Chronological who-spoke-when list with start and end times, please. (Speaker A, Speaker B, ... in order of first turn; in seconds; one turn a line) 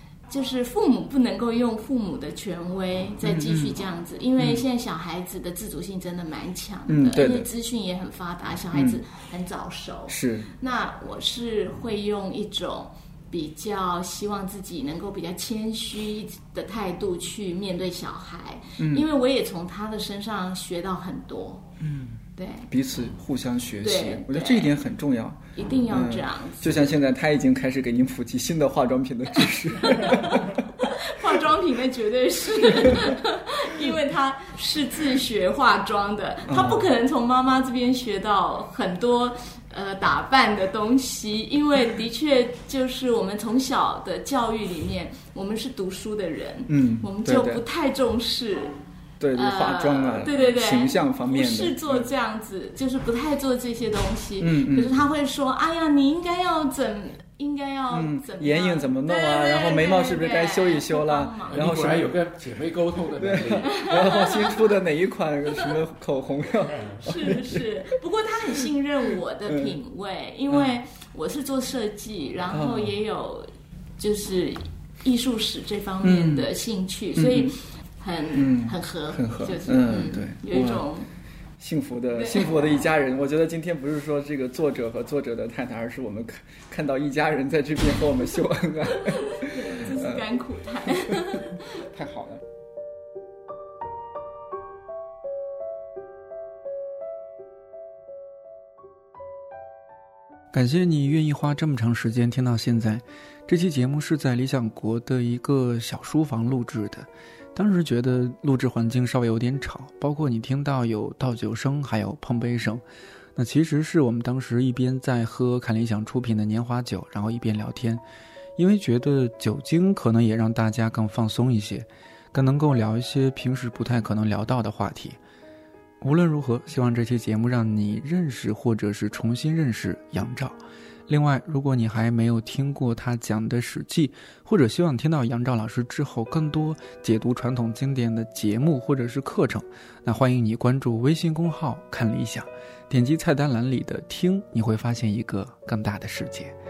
Speaker A: 0.3-21.6
Speaker B: 3.2-3.7
Speaker B: 4.4-4.6
Speaker B: 6.9-7.5
Speaker B: 8.7-9.0
Speaker B: 10.1-10.5
Speaker B: 18.8-19.1
Speaker B: 21.8-30.5
Speaker A: 22.4-22.7
Speaker A: 23.8-24.7
Speaker A: 25.5-26.9
Speaker A: 29.8-48.8
Speaker B: 36.5-36.9
Speaker B: 46.7-47.6
Speaker B: 49.2-52.1
Speaker A: 49.3-61.6
Speaker B: 54.4-55.0
Speaker B: 57.9-62.1
Speaker C: 61.5-63.8
Speaker B: 63.2-67.7
Speaker A: 63.6-64.7
Speaker A: 66.8-73.5
Speaker B: 69.5-69.8
Speaker B: 70.5-70.8
Speaker B: 72.5-72.9
Speaker A: 74.0-81.1
Speaker B: 76.0-76.5
Speaker B: 77.1-77.5
Speaker B: 78.3-80.8
Speaker B: 81.6-90.2
Speaker A: 82.2-82.5
Speaker A: 89.0-91.8
Speaker B: 91.1-92.4
Speaker D: 100.5-112.8
Speaker D: 113.3-118.0
Speaker D: 118.6-125.2
Speaker D: 126.0-130.5
Speaker D: 131.1-146.5